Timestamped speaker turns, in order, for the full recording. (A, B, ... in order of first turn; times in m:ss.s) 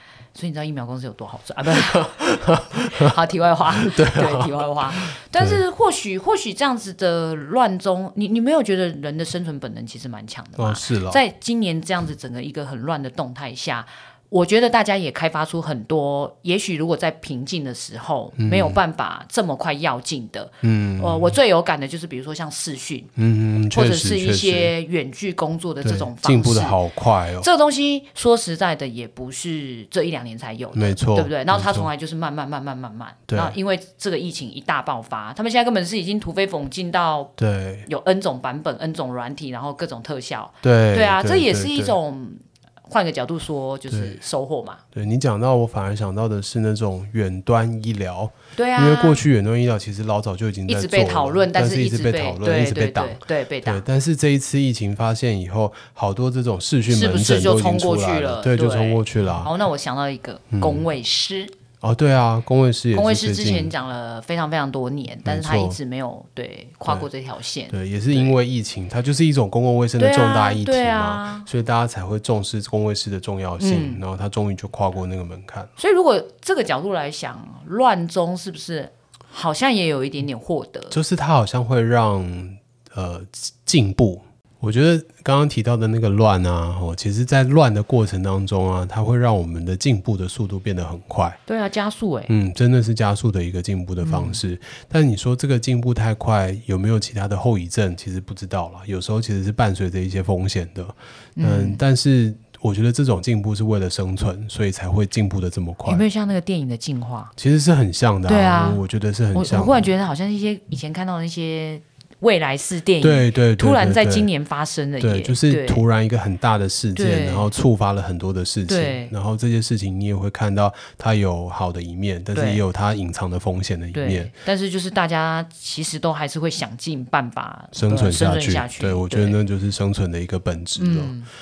0:00.3-0:23.1 A
0:01.9-0:03.0 B
0:03.8-0:05.6 B
0:10.6-0:11.2 B
0:18.4-0:18.8 B
0:20.6-0:21.4 B
0:23.2-0:24.7 B
0:23.7-0:26.8 A
0:25.8-0:27.5 B
0:27.4-0:37.3 A
0:30.7-0:31.9 B
0:33.3-0:33.5 B
0:37.4-0:37.9 B
0:37.8-0:44.8 A
0:40.6-0:42.0 B
0:43.9-0:44.2 B
0:44.9-0:59.5 B
0:48.5-0:49.2 A
0:50.7-0:53.8 A
0:56.9-1:01.5 A
1:00.5-1:00.9 B
1:01.8-1:03.7 B
1:02.9-1:08.4 A
1:05.2-1:05.8 B
1:07.7-1:15.7 B
1:10.0-1:11.5 A
1:13.6-1:14.0 A
1:15.8-1:21.0 A
1:20.9-1:31.4 B
1:31.4-1:32.3 A
1:32.3-1:46.0 B
1:34.0-1:34.4 A
1:41.4-1:41.8 A
1:45.8-1:47.3 A
1:47.4-1:49.9 B
1:48.2-1:55.8 A
1:53.0-1:54.3 B
1:55.0-2:04.3 B
1:57.0-1:57.5 A
1:58.7-1:59.1 A
2:02.3-2:02.6 A
2:03.9-2:09.4 A
2:07.7-2:11.2 B
2:10.8-2:11.3 A